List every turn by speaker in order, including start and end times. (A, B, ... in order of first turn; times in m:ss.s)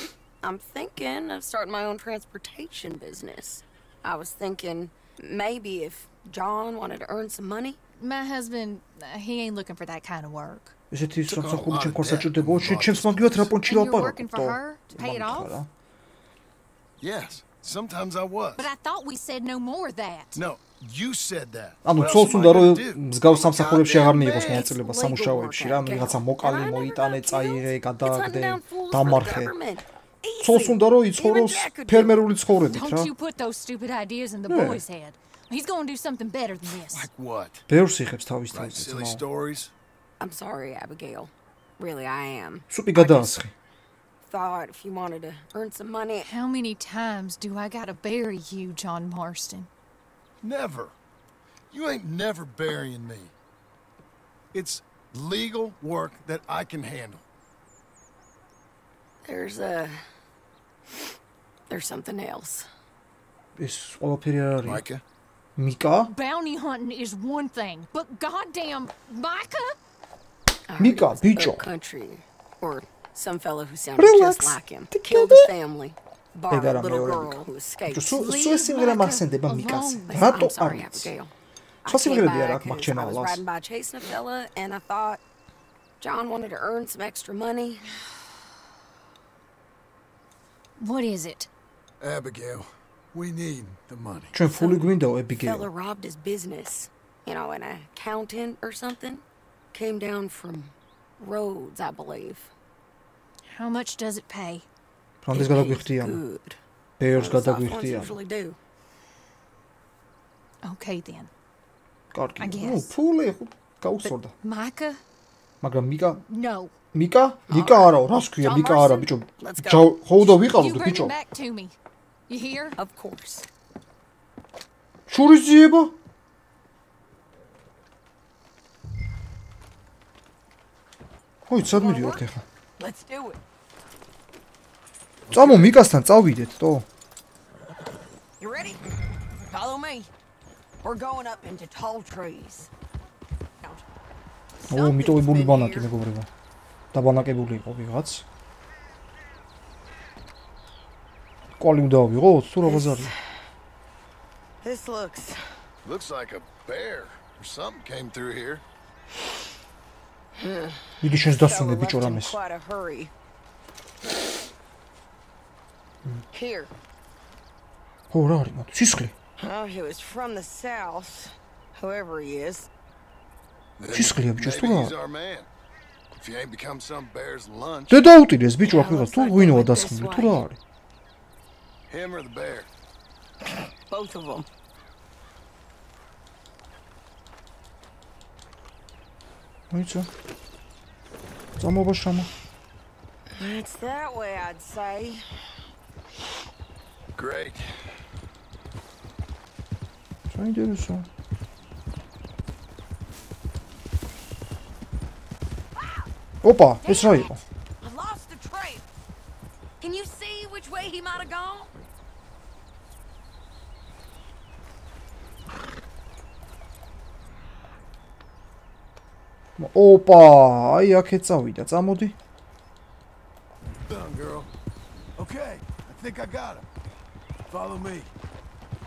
0:00.4-0:07.8 A
0:08.0-0:10.8 B
0:10.9-0:15.7 C
0:11.3-0:13.6 D
0:13.6-0:15.6 B
0:17.0-0:18.7 D
0:18.6-0:20.4 B
0:20.4-0:24.4 D
0:21.8-0:29.5 C
0:24.0-0:32.2 A
0:30.4-0:33.1 C
0:32.7-0:37.1 B
0:34.5-0:34.8 C
0:36.8-0:37.7 D
0:37.7-0:39.2 C
0:38.5-0:39.7 D
0:40.2-0:43.2 A
0:42.7-0:43.5 C
0:44.3-0:46.3 A
0:46.2-0:49.7 B
0:50.4-0:50.9 D
0:51.7-0:53.3 D
0:54.5-0:57.2 D
0:59.2-1:00.0 A
1:01.7-1:02.7 A
1:03.6-1:04.8 C
1:04.6-1:05.0 D
1:05.6-1:06.1 C
1:06.1-1:09.8 B
1:10.7-1:18.4 A
1:10.8-1:11.7 C
1:14.0-1:15.5 C
1:16.5-1:21.1 C
1:18.1-1:20.1 B
1:19.5-1:21.3 A
1:21.8-1:25.2 A
1:21.9-1:23.4 C
1:26.0-1:27.9 A
1:30.8-1:31.5 B
1:32.0-1:34.3 D
1:34.3-1:35.7 C
1:35.4-1:42.5 A
1:43.5-1:44.6 B
1:45.2-1:46.2 C
1:45.3-1:46.6 A
1:47.0-1:48.2 C
1:47.1-1:48.6 A
1:50.6-1:51.3 B
1:52.1-1:54.3 C
1:52.4-1:53.0 B
1:54.0-1:55.0 B
1:55.6-1:56.2 C
1:56.3-1:56.8 B
1:56.9-2:01.2 C
1:57.5-1:58.0 A
1:58.3-1:59.1 B
1:59.4-1:59.9 A
2:00.2-2:01.8 B
2:02.3-2:02.8 B
2:02.8-2:03.5 A
2:05.1-2:05.9 C
2:11.5-2:12.4 C
2:11.7-2:12.2 A
2:12.8-2:13.4 A
2:15.3-2:15.8 D
2:15.3-2:16.9 C
2:18.4-2:18.9 A
2:19.4-2:20.1 A
2:20.8-2:22.7 A
2:24.6-2:25.9 A
2:24.7-2:26.3 C
2:26.9-2:28.2 C
2:31.6-2:33.1 C
2:32.6-2:33.2 A
2:34.6-2:35.5 A
2:35.8-2:38.6 D
2:40.4-2:43.1 A
2:41.0-2:42.4 C
2:46.3-2:46.7 A
2:48.1-2:49.1 C
2:49.4-2:52.7 A
2:53.8-2:55.5 D
2:53.9-2:54.9 C
2:56.2-2:58.1 D
2:57.9-3:00.6 C
2:58.7-3:00.4 A
3:01.9-3:02.7 D
3:03.9-3:04.5 A
3:09.7-3:10.1 C
3:11.6-3:12.3 C
3:13.4-3:15.2 A
3:17.2-3:17.7 D
3:20.3-3:21.1 C
3:25.8-3:26.1 A
3:26.4-3:27.4 C
3:26.8-3:27.3 A
3:27.8-3:28.8 A
3:29.8-3:31.7 A
3:39.6-3:42.2 C
3:43.9-3:44.5 D
3:45.2-3:46.7 D
3:47.5-3:48.1 D